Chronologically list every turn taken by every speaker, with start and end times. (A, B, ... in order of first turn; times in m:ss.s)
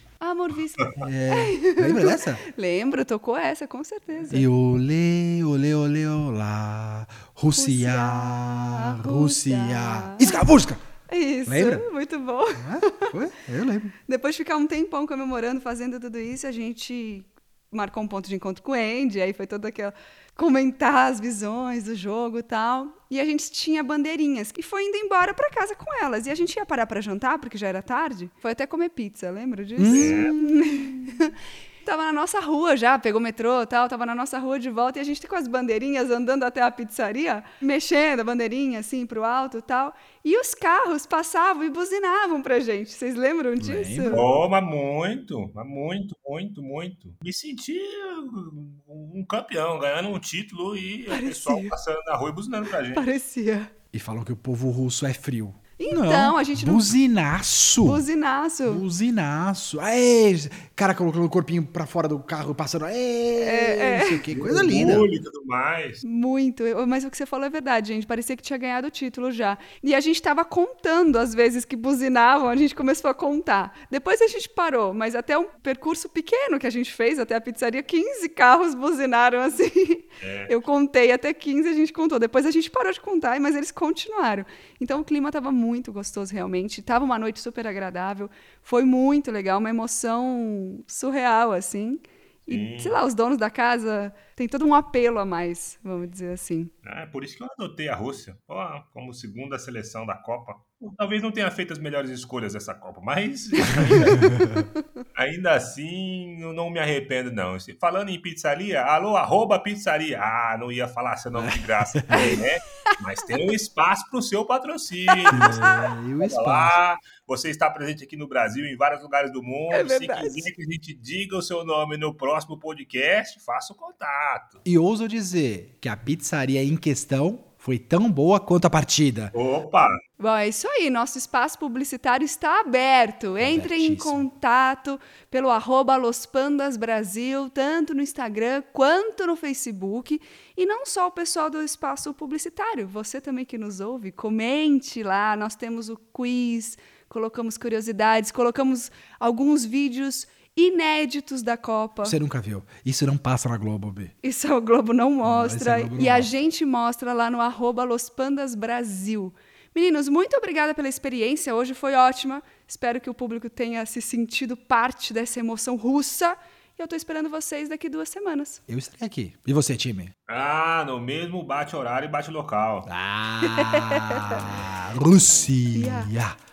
0:00.2-0:04.5 A
0:01.0-0:02.4 B
0:04.3-0:10.8 B
0:07.6-0:10.4 A
0:11.1-0:13.1 A
0:11.4-0:11.8 B
0:12.6-0:13.9 B
0:14.0-0:44.2 A
0:29.8-0:30.6 B
0:29.9-0:30.3 C
0:43.6-0:44.3 B
0:44.1-0:53.0 C
0:51.1-0:51.7 A
0:52.9-0:53.7 A
0:53.9-0:58.0 B
0:55.8-0:56.9 A
0:57.8-0:58.8 A
0:58.6-1:05.1 B
1:03.4-1:04.2 A
1:04.3-1:06.0 C
1:06.0-1:36.7 A
1:20.2-1:20.5 C
1:32.5-1:33.0 C
1:36.8-1:44.3 C
1:43.6-1:44.1 A
1:44.1-1:44.6 B
1:45.1-1:55.6 C
1:51.3-1:52.4 B
1:52.1-1:52.4 A
1:55.1-1:55.9 A
1:55.3-1:56.8 B
1:56.2-2:04.6 C
1:59.7-2:00.5 A
2:04.6-2:09.3 B
2:09.3-2:09.9 C
2:10.2-2:32.2 A
2:13.4-2:14.3 B
2:32.0-2:34.1 B
2:34.2-2:48.6 A
2:35.2-2:36.3 B
2:48.7-2:50.1 B
2:50.3-2:52.9 C
2:52.8-2:56.4 B
2:53.4-2:54.4 A
2:55.7-2:56.1 A